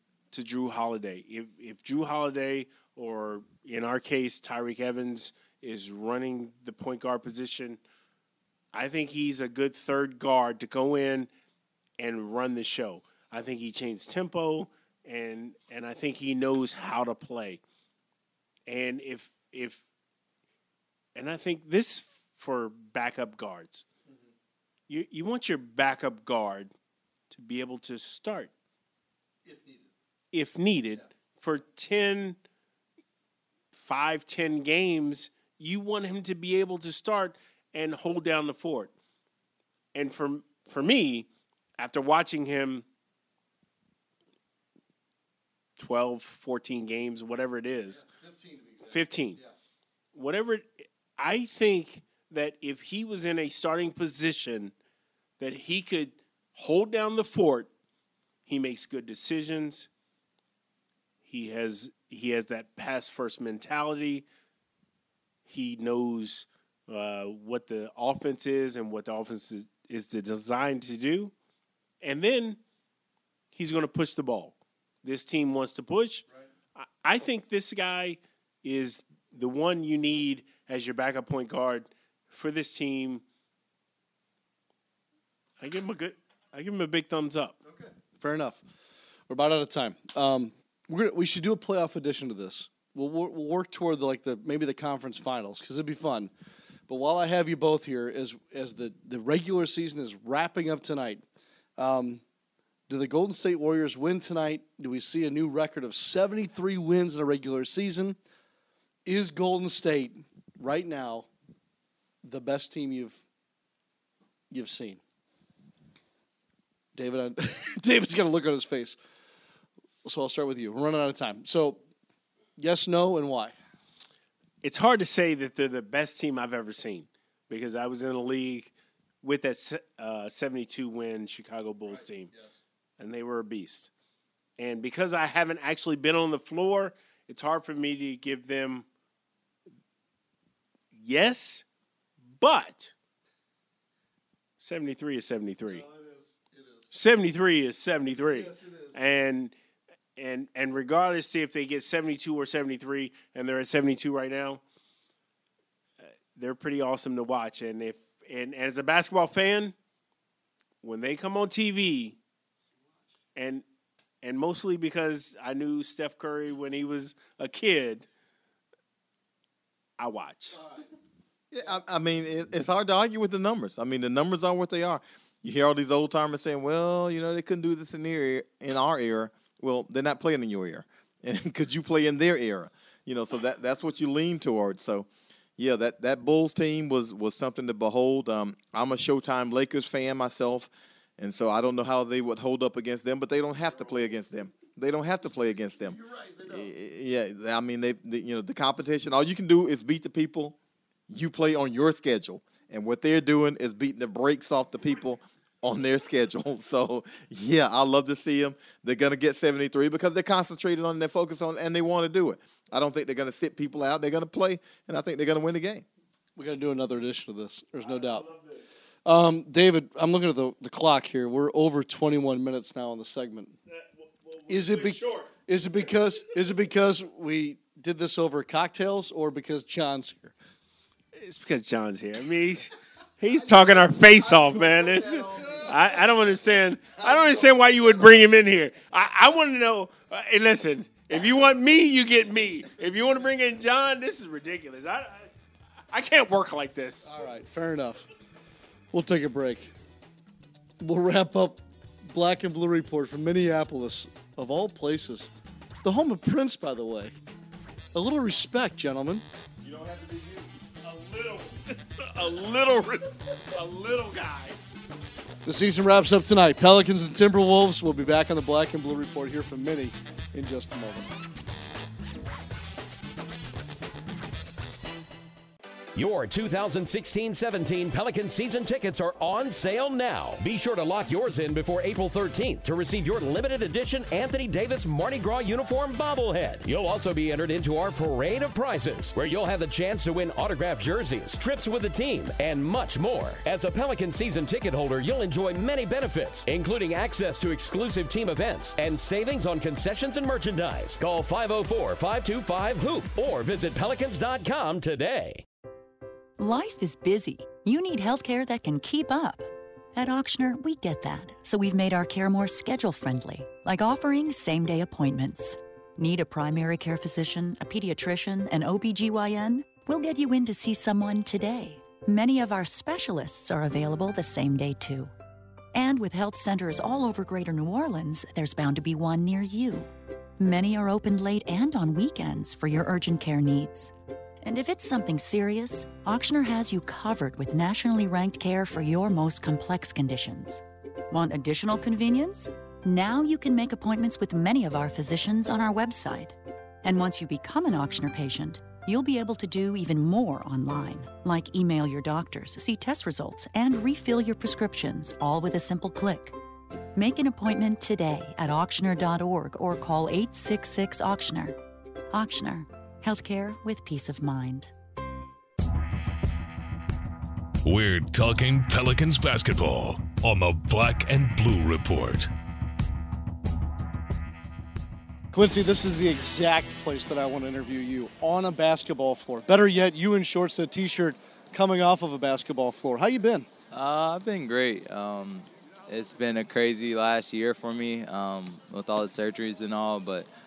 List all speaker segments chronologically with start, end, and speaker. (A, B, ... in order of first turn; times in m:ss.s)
0:00.3-0:07.8 A
0:08.7-0:11.3 A
0:12.0-0:17.6 A
0:18.7-0:19.8 A
0:21.1-0:23.8 A
0:24.9-0:26.7 A
0:27.3-0:28.5 A
0:29.5-0:29.8 B
0:30.3-0:32.4 A
0:33.7-0:38.9 A
0:39.9-0:42.8 A
0:45.8-0:48.0 A
0:48.1-0:48.9 B
0:48.9-0:49.4 A
0:50.1-0:54.7 A
0:55.4-0:57.7 A
0:58.4-0:59.9 A
1:01.2-1:04.2 A
1:05.4-1:11.3 A
1:12.0-1:12.6 A
1:13.5-1:16.2 A
1:16.8-1:23.2 A
1:25.6-1:27.6 A
1:27.7-1:28.6 B
1:29.3-1:36.3 B
1:36.9-1:41.2 B
1:41.8-1:42.2 B
1:42.9-1:48.2 B
1:49.0-1:51.3 B
1:52.2-1:53.2 B
1:54.5-1:55.0 B
1:56.9-1:59.0 B
2:00.0-2:01.8 B
2:02.6-2:03.5 B
2:04.6-2:12.3 A
2:13.0-2:13.9 A
2:14.6-2:18.8 A
2:20.9-2:21.6 A
2:22.4-2:22.9 A
2:24.6-2:25.8 A
2:25.9-2:26.1 B
2:26.9-2:29.5 A
2:30.2-2:34.6 A
2:36.3-2:39.7 A
2:40.8-2:42.2 A
2:43.3-2:43.6 A
2:44.2-2:48.0 A
2:50.0-2:50.6 A
2:51.5-3:20.6 C
3:21.1-3:35.8 C
3:36.4-3:38.2 B
3:37.8-3:38.6 A
3:39.0-3:43.5 B
3:43.7-3:45.3 A
3:44.5-3:50.3 B
3:51.1-4:05.3 A
4:05.9-4:07.1 A
4:07.0-4:08.1 B
4:08.9-4:09.7 B
4:10.8-4:17.1 B
4:17.9-4:19.2 B
4:19.6-4:24.6 A
4:25.4-4:31.1 B
4:35.9-5:05.4 D
5:06.4-5:25.1 E
5:25.7-5:56.3 E
5:56.9-6:01.6 E
6:02.1-6:04.7 E
6:07.6-6:12.3 F
6:15.3-6:23.5 B
6:23.7-6:30.3 G